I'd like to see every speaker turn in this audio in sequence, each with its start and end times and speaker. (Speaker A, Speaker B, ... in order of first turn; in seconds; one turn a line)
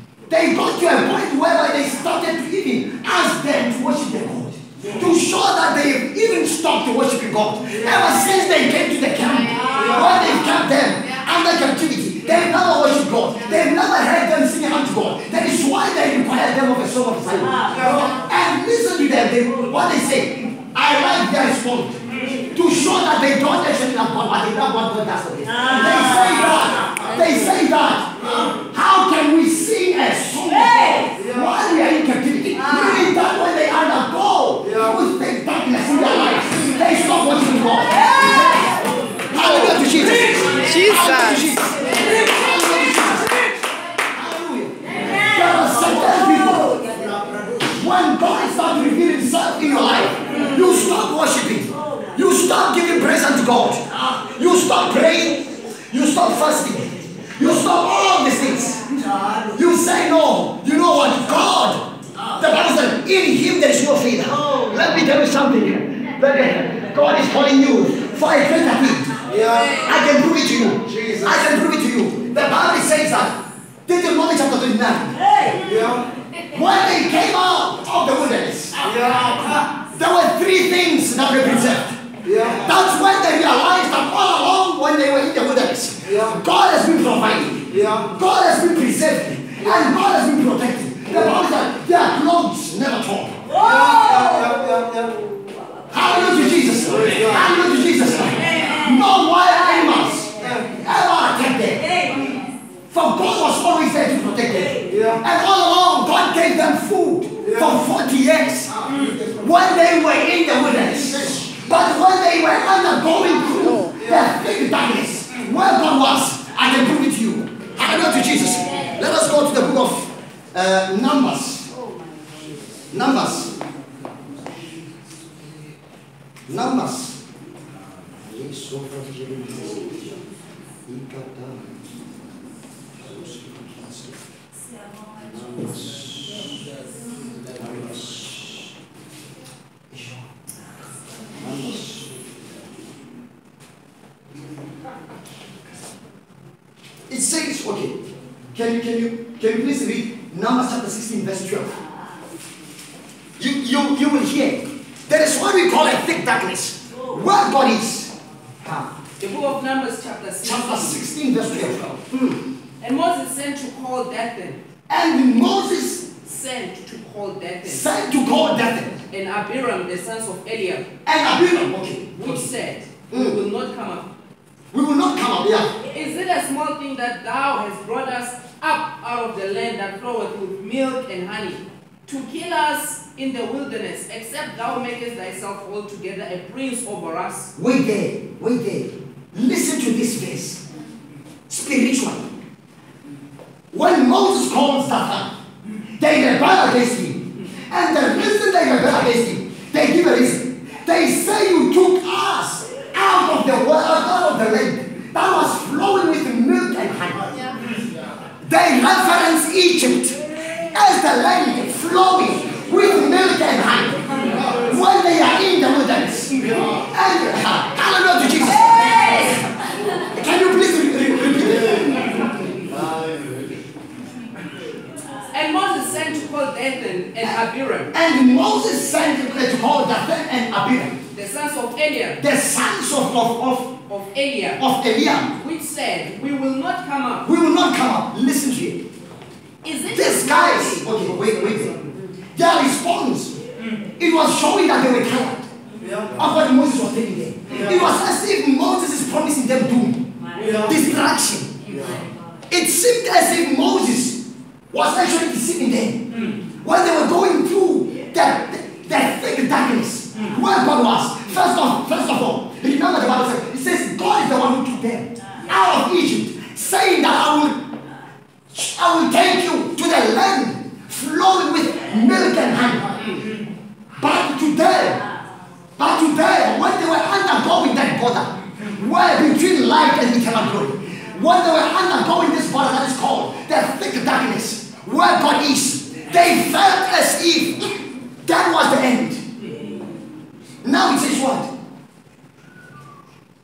Speaker A: 0.3-46.9
Speaker B: 9.7-10.2
Speaker B: 17.7-18.2
Speaker B: 22.1-22.4
Speaker B: 31.2-31.5
Speaker B: 34.6-35.0
Speaker A: 47.6-69.2
Speaker B: 69.2-69.8
Speaker A: 69.8-75.5
Speaker B: 70.9-71.2
Speaker B: 75.5-76.0
Speaker A: 76.5-78.8
Speaker B: 78.8-79.6
Speaker A: 79.7-93.5
Speaker B: 82.2-82.7
Speaker B: 86.0-86.4
Speaker B: 87.7-88.1
Speaker B: 93.5-95.2
Speaker A: 95.9-102.0
Speaker B: 96.2-98.4
Speaker B: 100.4-100.7
Speaker A: 102.9-121.7
Speaker B: 104.9-105.2
Speaker B: 107.4-107.8
Speaker B: 108.9-109.2
Speaker B: 113.8-114.2
Speaker A: 122.9-123.5
Speaker A: 126.5-127.2
Speaker A: 128.1-130.2
Speaker A: 130.8-131.8
Speaker A: 132.9-134.2
Speaker A: 135.2-136.4
Speaker A: 137.5-138.7
Speaker A: 139.9-140.3
Speaker A: 141.3-142.2
Speaker A: 147.1-148.0
Speaker A: 148.5-151.7
Speaker A: 153.4-158.9
Speaker C: 159.2-161.1
Speaker A: 160.4-162.4
Speaker C: 162.8-164.6
Speaker A: 164.9-166.1
Speaker C: 166.2-167.9
Speaker A: 167.6-169.0
Speaker C: 169.1-170.9
Speaker A: 171.0-172.5
Speaker C: 172.1-174.1
Speaker A: 173.1-173.4
Speaker A: 174.7-175.8
Speaker C: 175.9-187.5
Speaker A: 187.6-190.6
Speaker A: 191.5-192.3
Speaker A: 193.7-195.3
Speaker A: 196.0-207.5
Speaker A: 208.4-222.2
Speaker B: 222.7-223.2
Speaker C: 225.3-227.9
Speaker A: 227.9-231.0
Speaker C: 231.1-232.2
Speaker A: 232.2-233.7
Speaker C: 233.8-234.6
Speaker A: 234.6-235.3
Speaker C: 235.4-237.3
Speaker A: 237.2-238.8
Speaker C: 239.6-240.9
Speaker A: 239.9-243.3
Speaker B: 243.6-243.9
Speaker A: 244.0-245.5
Speaker B: 245.8-246.2
Speaker A: 246.1-251.6
Speaker B: 247.5-247.8
Speaker B: 250.3-250.8
Speaker B: 251.7-252.1
Speaker A: 252.5-267.6
Speaker B: 256.1-256.4
Speaker A: 268.5-273.0
Speaker A: 274.0-275.0
Speaker A: 275.8-287.6
Speaker A: 288.2-289.2
Speaker A: 290.6-291.5